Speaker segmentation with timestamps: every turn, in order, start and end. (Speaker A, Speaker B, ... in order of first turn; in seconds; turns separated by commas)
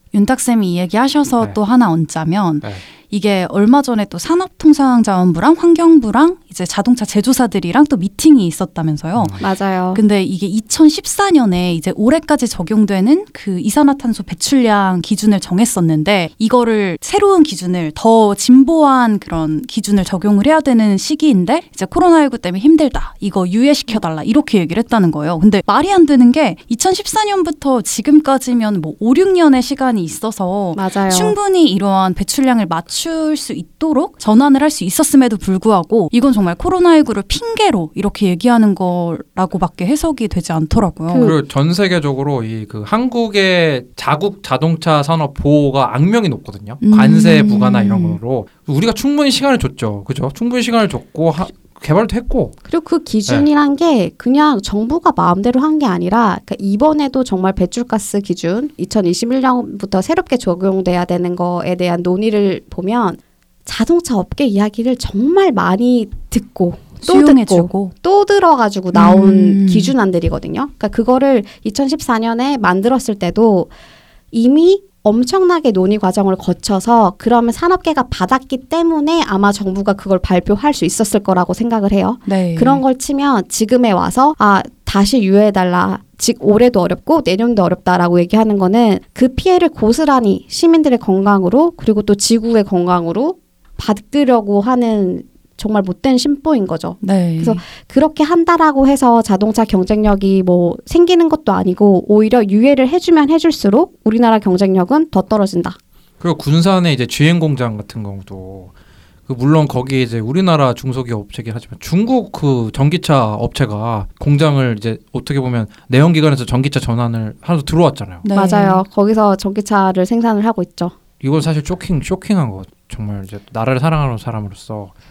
Speaker A: 0.1-9.4, Speaker B: 9.2-9.4, Speaker C: 9.4-10.0, Speaker A: 9.9-41.3, Speaker C: 30.8-31.4, Speaker B: 41.1-52.6, Speaker A: 46.8-48.2, Speaker C: 52.7-73.7, Speaker A: 67.0-67.9, Speaker A: 68.9-69.9, Speaker C: 74.3-105.8, Speaker A: 82.3-82.8, Speaker A: 97.0-97.6, Speaker B: 106.2-108.7, Speaker B: 109.3-118.2, Speaker A: 118.2-118.8, Speaker C: 118.3-120.9, Speaker B: 121.2-124.9